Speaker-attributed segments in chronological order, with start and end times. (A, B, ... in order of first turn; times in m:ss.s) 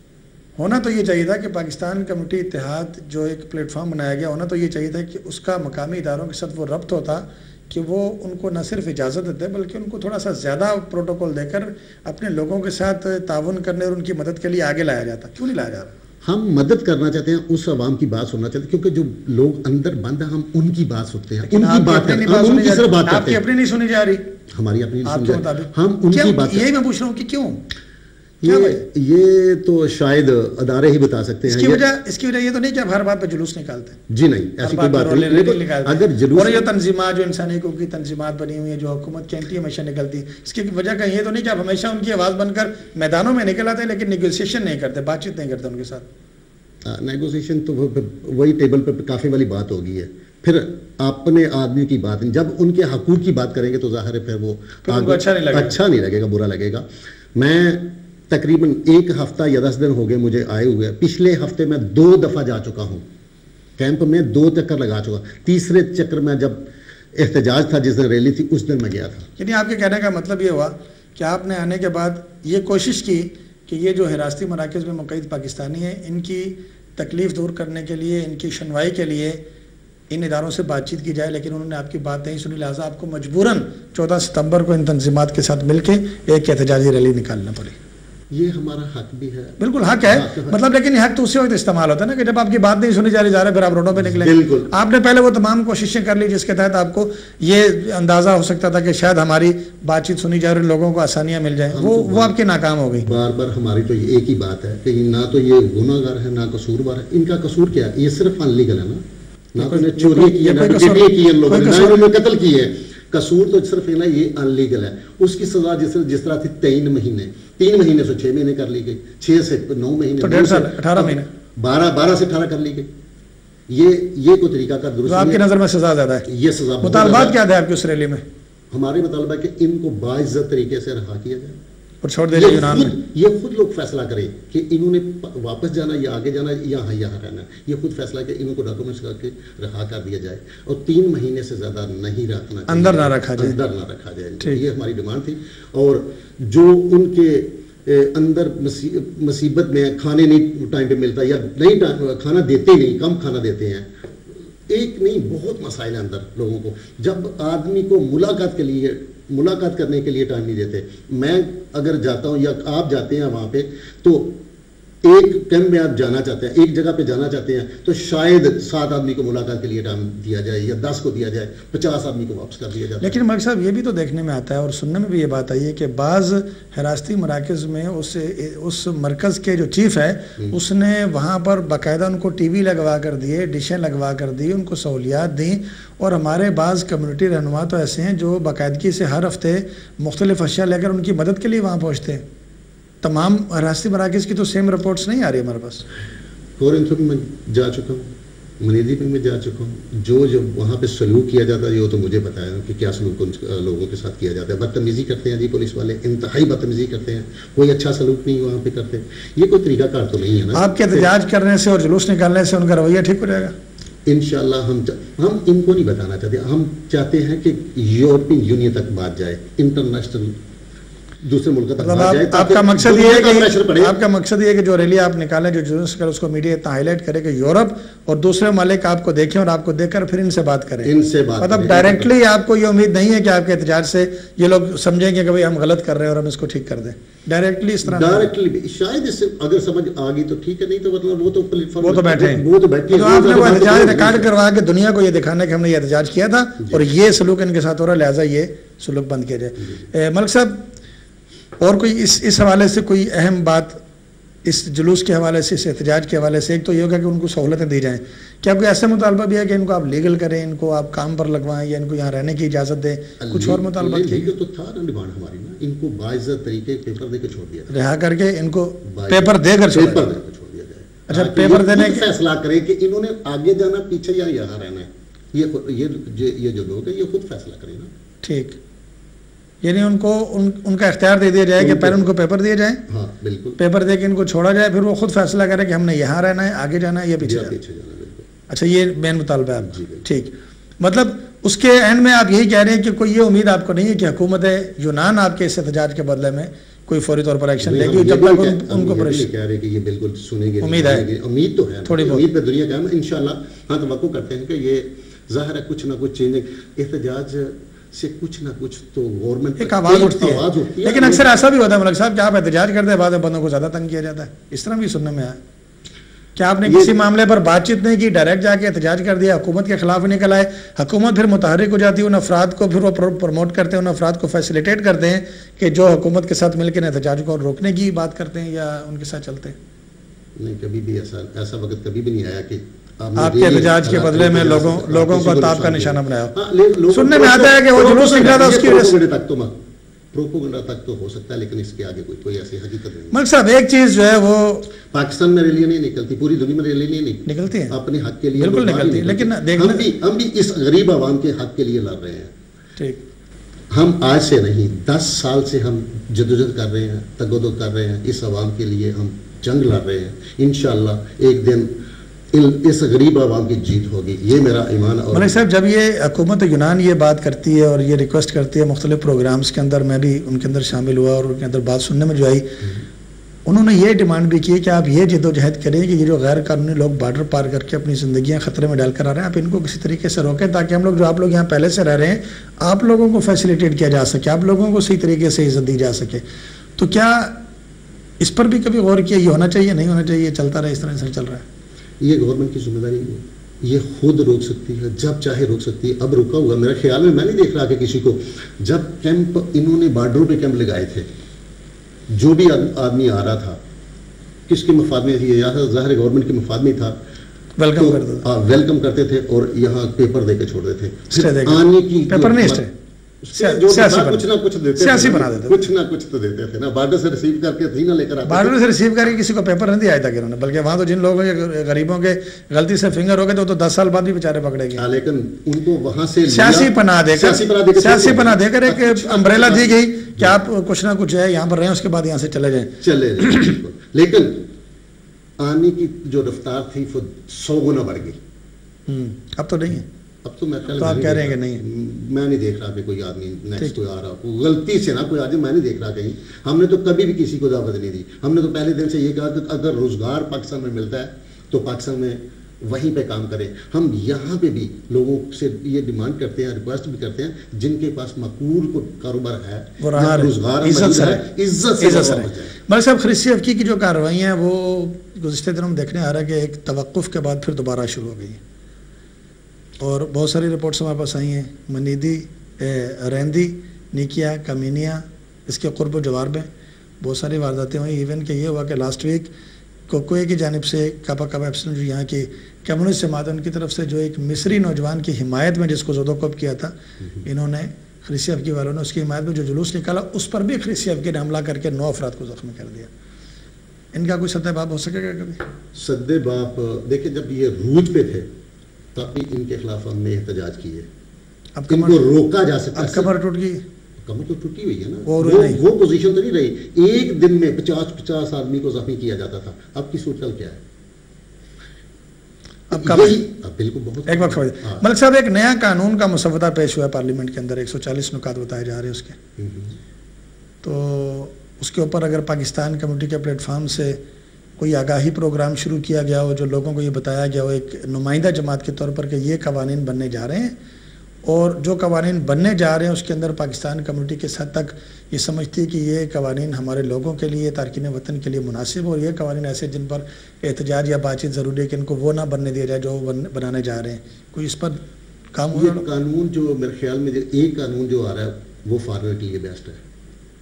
0:00.6-0:15.9 A
0:16.2-0:23.4 B
0:21.4-0:24.3 A
0:24.5-0:26.7 B
0:25.0-0:27.6 A
0:28.4-0:31.8 B
0:28.4-0:28.8 A
0:31.5-0:34.0 A
0:34.1-0:36.6 B
0:34.6-0:46.1 A
0:46.8-1:03.0 B
0:54.8-0:55.8 A
1:03.8-1:09.3 B
1:09.4-1:19.4 A
1:20.1-1:27.8 A
1:28.3-1:30.6 B
1:29.6-1:43.1 A
1:33.9-1:34.7 B
1:41.7-1:42.4 B
1:43.0-1:49.0 B
1:49.5-2:02.9 B
1:49.6-1:52.1 A
2:00.2-2:01.3 A
2:03.7-2:05.4 B
2:05.1-2:06.3 A
2:06.3-2:07.4 B
2:06.8-2:08.2 A
2:08.7-2:11.6 B
2:12.0-2:13.0 A
2:12.3-2:44.4 B
2:22.7-2:23.6 A
2:45.0-2:53.2 B
2:53.0-3:12.2 A
3:13.0-3:15.9 A
3:16.6-3:18.1 B
3:18.6-3:31.1 B
3:30.5-3:33.5 A
3:34.1-3:40.4 B
3:41.2-3:43.9 B
3:41.8-3:58.3 A
3:50.8-3:52.1 B
3:57.8-4:04.3 B
4:01.8-4:10.7 A
4:11.6-4:13.8 A
4:14.4-4:24.3 A
4:23.2-4:27.7 B
4:27.7-4:30.1 A
4:28.8-4:37.9 B
4:31.1-4:32.1 A
4:38.2-4:38.6 A
4:39.6-4:42.8 A
4:41.6-4:42.1 B
4:42.9-4:43.6 B
4:43.6-4:47.6 A
4:47.2-4:48.3 B
4:48.5-4:59.3 A
4:49.6-4:50.1 B
4:57.6-5:11.3 B
5:00.6-5:01.1 A
5:01.8-5:02.3 A
5:09.6-5:15.4 A
5:16.4-5:29.6 A
5:16.6-5:17.0 B
5:30.4-5:39.6 B
5:33.2-5:36.4 A
5:36.9-5:39.0 A
5:40.1-5:43.2 B
5:43.1-5:44.7 A
5:44.9-5:52.3 B
5:47.3-5:47.8 A
5:48.4-5:49.9 A
5:53.7-6:01.7 B
6:02.3-6:05.4 B
6:05.1-6:12.5 A
6:13.4-6:26.2 A
6:26.8-6:27.4 A
6:28.2-6:31.4 A
6:32.0-6:41.1 B
6:42.1-6:43.6 B
6:44.5-6:47.0 B
6:47.6-6:48.3 A
6:47.7-6:52.6 B
6:51.1-6:52.7 A
6:53.2-6:58.6 B
6:53.3-6:55.6 A
6:58.2-7:04.9 A
7:04.8-7:10.4 B
7:06.3-7:13.4 A
7:12.8-7:14.4 B
7:15.4-7:18.2 B
7:18.9-7:19.9 A
7:20.2-7:42.5 B
7:20.8-7:21.6 A
7:39.8-7:41.2 A
7:41.8-7:48.4 A
7:49.8-7:56.5 A
7:57.0-7:59.3 A
7:59.9-8:12.9 A
8:13.9-8:15.4 A
8:15.7-8:18.3 B
8:18.9-8:20.9 B
8:21.6-8:22.1 A
8:21.7-8:23.1 B
8:22.7-8:23.6 A
8:24.0-8:30.6 B
8:25.1-8:25.6 A
8:32.7-8:33.2 A
8:32.7-8:34.8 B
8:34.1-8:39.2 A
8:39.4-8:39.8 B
8:40.6-8:44.0 A
8:44.6-8:50.6 A
8:51.2-9:04.8 A
9:05.3-9:05.9 A
9:05.5-9:09.8 B